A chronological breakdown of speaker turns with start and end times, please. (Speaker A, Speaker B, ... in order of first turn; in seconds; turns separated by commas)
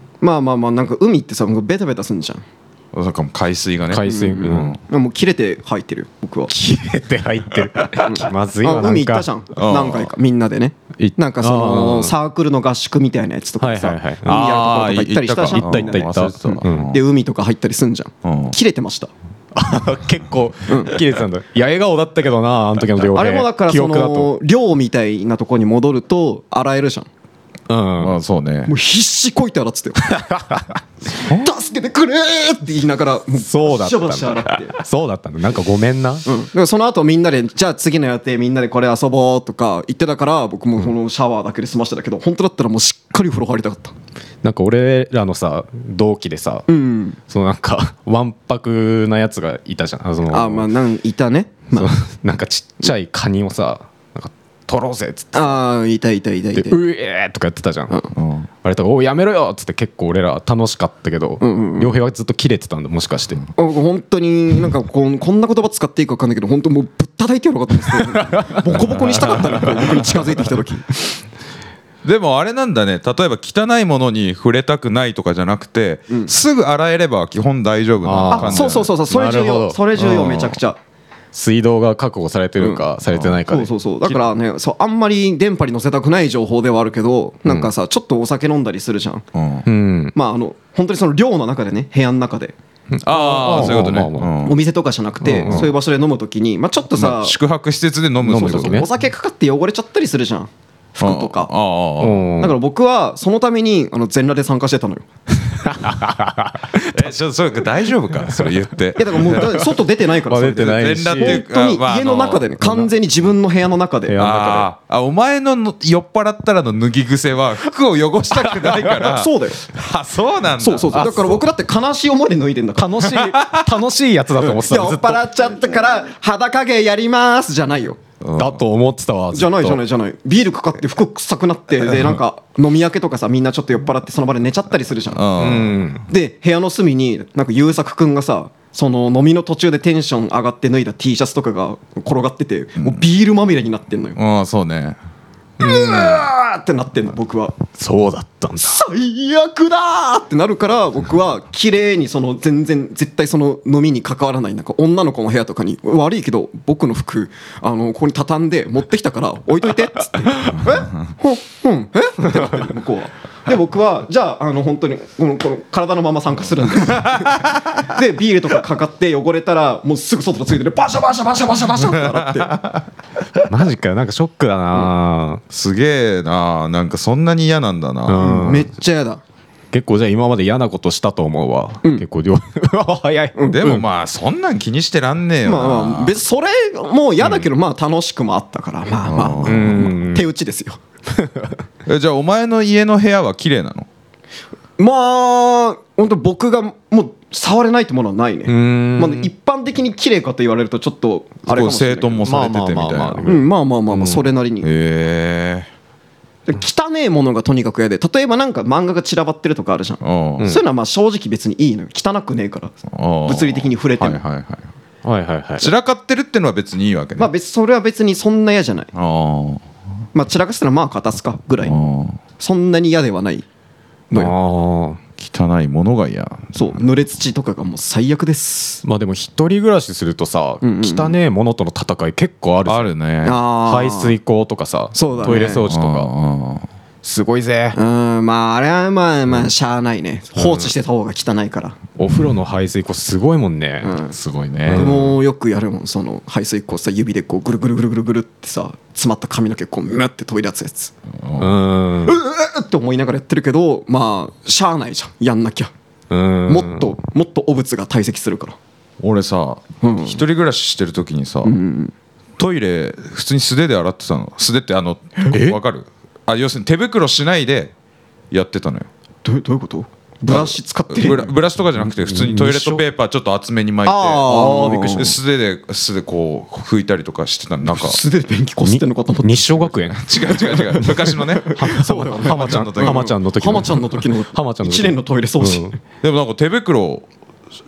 Speaker A: 0.2-2.4, Speaker B: 2.9-4.8, Speaker C: 3.9-4.8, Speaker A: 4.1-6.5, Speaker C: 6.5-9.3, Speaker A: 8.1-19.1, Speaker B: 9.6-10.1, Speaker C: 11.0-12.1, Speaker C: 13.6-14.4, Speaker B: 14.2-17.0, Speaker C: 15.5-16.9, Speaker B: 18.2-18.6, Speaker C: 19.6-24.3, Speaker A: 20.7-21.0, Speaker A: 23.1-27.1, Speaker C: 27.7-28.2, Speaker B: 28.0-28.7, Speaker A: 28.7-30.2, Speaker C: 30.1-30.8, Speaker A: 31.1-34.8, Speaker C: 33.4-36.3, Speaker A: 36.3-43.9, Speaker C: 44.4-46.7, Speaker A: 46.7-47.2, Speaker C: 47.3-50.7, Speaker A: 50.3-51.9, Speaker C: 51.7-55.6, Speaker A: 55.3-56.8, Speaker C: 56.5-58.1, Speaker B: 58.1-58.5, Speaker C: 58.6-63.4, Speaker A: 61.4-61.9, Speaker A: 63.6-71.1, Speaker C: 67.9-70.0, Speaker B: 72.0-78.9, Speaker C: 78.0-80.4, Speaker A: 78.3-80.8, Speaker B: 80.1-80.6, Speaker C: 81.3-84.2, Speaker A: 82.6-82.9, Speaker B: 83.1-83.4, Speaker A: 83.5-89.3, Speaker B: 89.3-89.7, Speaker C: 89.7-90.1, Speaker A: 90.1-92.5, Speaker C: 92.9-94.4, Speaker B: 93.0-94.6, Speaker A: 94.4-97.4, Speaker C: 95.2-95.7, Speaker B: 95.5-95.7, Speaker B: 96.9-98.9, Speaker C: 98.2-98.9, Speaker A: 98.3-101.5, Speaker B: 101.0-102.3, Speaker C: 102.0-102.6, Speaker A: 102.4-105.0, Speaker C: 105.6-107.1, Speaker B: 106.8-109.6, Speaker A: 109.0-114.5, Speaker C: 109.3-109.7, Speaker C: 110.3-111.4, Speaker B: 110.6-112.5, Speaker C: 112.6-112.9, Speaker C: 114.1-114.7, Speaker B: 114.2-121.1, Speaker A: 118.3-119.7, Speaker A: 120.6-123.1, Speaker C: 120.9-121.4, Speaker C: 122.8-125.2, Speaker B: 123.1-123.7, Speaker A: 124.4-128.0, Speaker B: 128.2-128.6, Speaker C: 128.4-129.8, Speaker A: 129.3-135.2, Speaker B: 135.1-135.8, Speaker C: 135.4-136.0, Speaker A: 136.1-144.2, Speaker B: 142.8-143.0, Speaker B: 144.2-145.0, Speaker C: 145.6-146.3, Speaker A: 145.6-147.6, Speaker C: 147.8-148.8, Speaker A: 148.6-172.6, Speaker B: 166.9-167.8, Speaker B: 172.0-172.8, Speaker C: 173.5-175.4, Speaker B: 175.5-178.2, Speaker C: 178.1-178.7, Speaker A: 178.2-179.2, Speaker C: 179.7-183.8, Speaker A: 183.4-183.7, Speaker B: 183.5-186.2, Speaker A: 185.4-190.8, Speaker B: 189.1-189.6, Speaker C: 189.4-190.3, Speaker C: 191.2-191.5, Speaker B: 191.9-193.9, Speaker A: 194.8-202.3, Speaker C: 198.5-199.3, Speaker B: 201.5-203.3, Speaker C: 202.2-204.3, Speaker A: 203.3-204.7, Speaker B: 204.6-205.7, Speaker A: 206.5-212.8, Speaker B: 210.0-210.5, Speaker B: 212.9-214.7, Speaker A: 213.3-214.2, Speaker C: 215.1-215.7, Speaker B: 215.6-217.3, Speaker A: 217.2-218.9, Speaker B: 218.9-219.6, Speaker A: 220.1-221.8, Speaker B: 221.6-222.2, Speaker A: 222.4-223.4, Speaker C: 224.1-225.0, Speaker B: 225.2-226.8, Speaker A: 226.6-228.8, Speaker C: 228.8-232.9, Speaker A: 230.6-231.2, Speaker B: 232.7-233.4, Speaker A: 233.2-234.2, Speaker C: 233.6-236.1, Speaker A: 234.9-235.6, Speaker B: 235.2-236.7, Speaker C: 237.0-237.8, Speaker A: 237.8-241.8, Speaker C: 240.4-240.7, Speaker C: 242.0-245.2, Speaker A: 243.8-244.1, Speaker B: 244.5-245.1, Speaker A: 244.7-250.9, Speaker B: 251.2-251.6, Speaker C: 251.4-252.2, Speaker A: 252.1-255.7, Speaker C: 256.1-256.9, Speaker A: 256.5-258.6, Speaker B: 259.0-261.6, Speaker A: 259.8-260.2, Speaker A: 261.4-261.9, Speaker B: 262.4-267.7, Speaker C: 265.3-265.6, Speaker B: 268.3-268.9, Speaker A: 269.2-271.3, Speaker B: 270.3-278.0, Speaker C: 272.0-272.8, Speaker A: 273.9-275.1, Speaker A: 277.6-280.0, Speaker C: 278.6-280.9, Speaker B: 280.0-283.1, Speaker A: 281.4-285.8, Speaker C: 281.5-285.8, Speaker B: 286.0-287.1